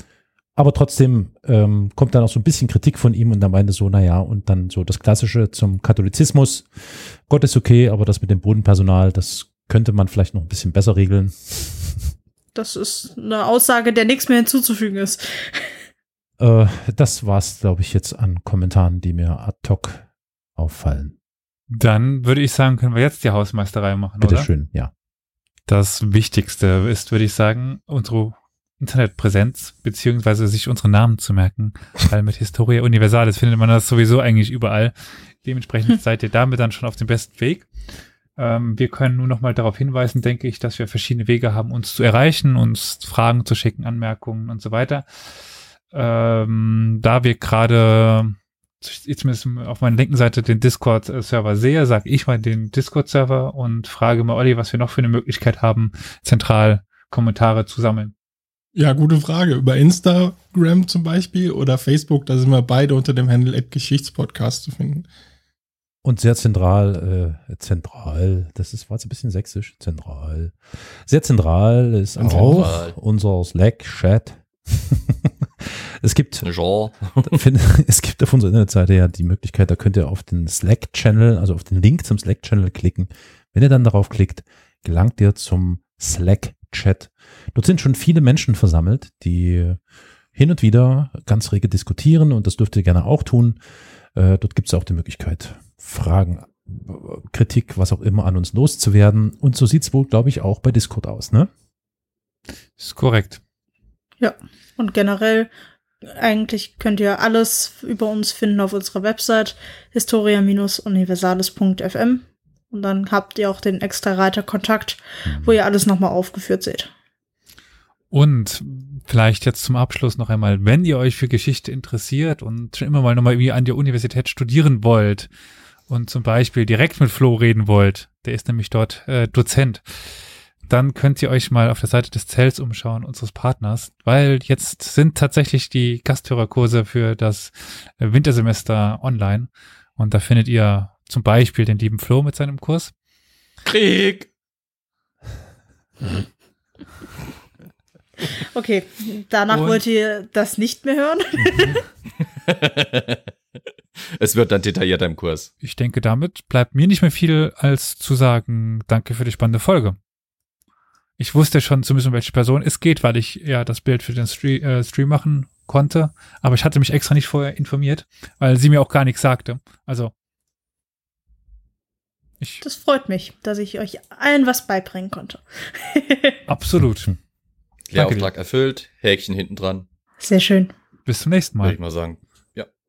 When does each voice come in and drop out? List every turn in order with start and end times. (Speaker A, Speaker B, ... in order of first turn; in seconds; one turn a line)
Speaker A: 0.6-12.1
Speaker B: 12.6-15.8
Speaker A: 16.4-21.1
Speaker C: 21.7-24.5
Speaker A: 24.2-24.9
Speaker C: 25.7-37.7
Speaker C: 38.4-45.0
Speaker C: 45.9-58.1
Speaker D: 58.8-65.1
Speaker A: 66.0-76.5
Speaker D: 72.2-72.8
Speaker E: 72.2-73.0
Speaker E: 76.4-77.4
Speaker A: 77.1-89.8
Speaker A: 90.3-93.6
Speaker A: 94.2-101.5
Speaker C: 102.8-103.4
Speaker B: 104.2-105.5
Speaker B: 106.1-116.9
Speaker A: 115.3-115.6
Speaker C: 118.1-125.3
Speaker C: 125.9-129.8
Speaker C: 130.7-142.9
Speaker E: 143.7-144.3
Speaker B: 148.5-151.8
Speaker C: 149.5-149.8
Speaker C: 151.4-151.8
Speaker E: 152.2-153.3
Speaker E: 154.2-155.5
Speaker C: 155.6-160.0
Speaker C: 161.2-170.1
Speaker B: 172.6-176.4
Speaker C: 176.5-177.1
Speaker E: 177.9-179.9
Speaker C: 177.9-178.3
Speaker B: 180.2-180.7
Speaker C: 181.1-181.8
Speaker E: 181.6-182.7